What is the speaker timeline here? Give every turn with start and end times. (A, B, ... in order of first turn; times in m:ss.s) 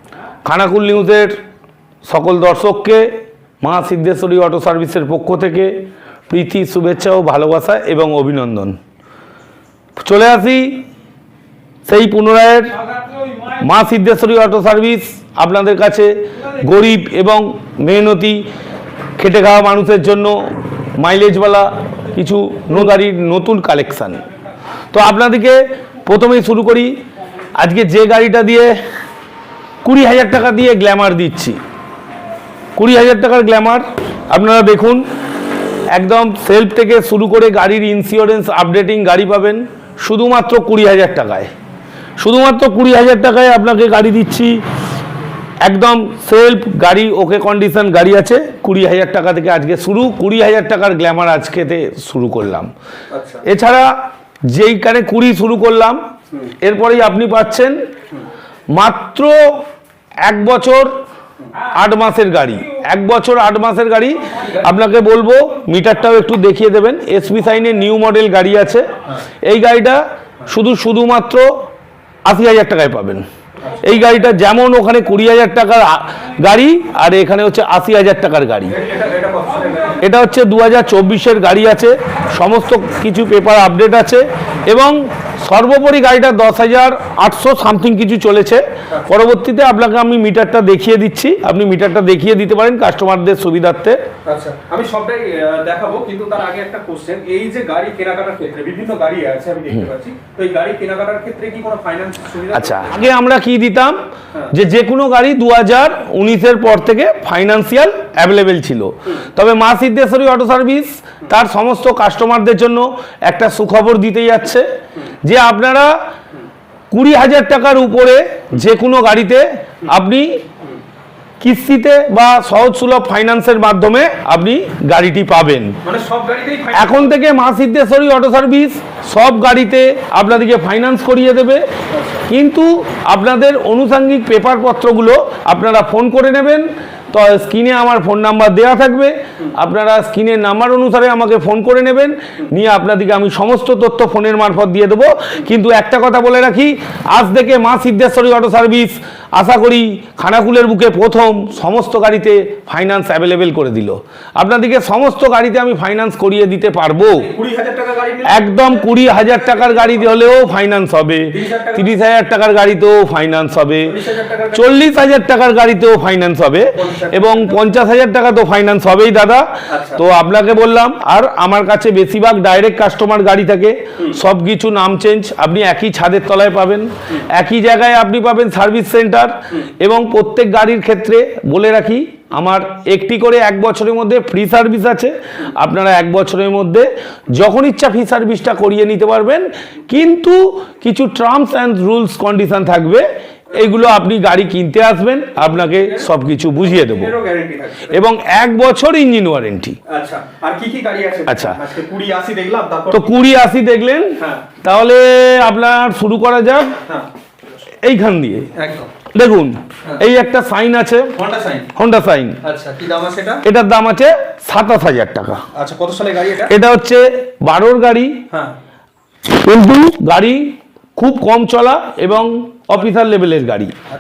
0:00.4-0:01.4 A
0:02.1-0:03.1 A
0:03.6-0:05.8 A
0:06.3-0:08.8 A
0:10.0-0:10.8 A
0:11.9-0:12.7 A
0:13.6-0:18.4 A
0:19.2-0:24.2 A
0:24.9-0:27.0 A
0:27.6-0:28.8 A
0:29.8-0:31.6 A
0:32.8-0:35.0 A
0:35.9-0:41.5 A
0:42.2-0:44.6 A
0:45.6-0:52.7 A
0:53.1-0:53.4 B
0:53.4-0:53.9 A
0:54.5-0:56.0 A
0:56.6-0:57.8 A
0:58.7-0:59.6 A
1:00.2-1:01.0 A
1:01.8-1:08.8 A
1:09.4-1:11.7 A
1:12.2-1:13.2 A
1:13.7-1:14.0 B
1:13.8-1:18.8 A
1:18.7-1:20.0 B
1:20.0-1:34.0 A
1:34.2-1:43.1 B
1:42.5-1:44.0 A
1:44.5-1:54.6 A
1:55.2-1:55.9 A
1:56.9-2:00.4 A
2:01.4-2:05.8 A
2:05.8-2:07.1 B
2:06.7-2:11.6 A
2:11.9-2:12.3 B
2:12.3-2:37.3 A
2:37.2-2:40.2 B
2:38.2-2:44.0 A
2:41.3-2:42.0 B
2:43.8-2:44.9 B
2:44.5-3:17.1 A
2:46.7-2:47.6 B
2:49.7-2:50.0 B
3:15.4-3:18.0 B
3:17.9-3:19.8 A
3:19.9-3:23.1 B
3:21.3-3:21.6 A
3:22.9-3:26.8 A
3:24.2-3:24.5 B
3:27.8-3:28.5 A
3:28.6-3:28.9 B
3:29.1-3:31.1 A
3:31.2-3:31.7 B
3:31.7-3:32.4 A
3:32.4-3:33.4 B
3:33.4-3:35.4 A
3:35.6-3:36.5 B
3:36.4-3:38.2 A
3:39.3-3:43.8 A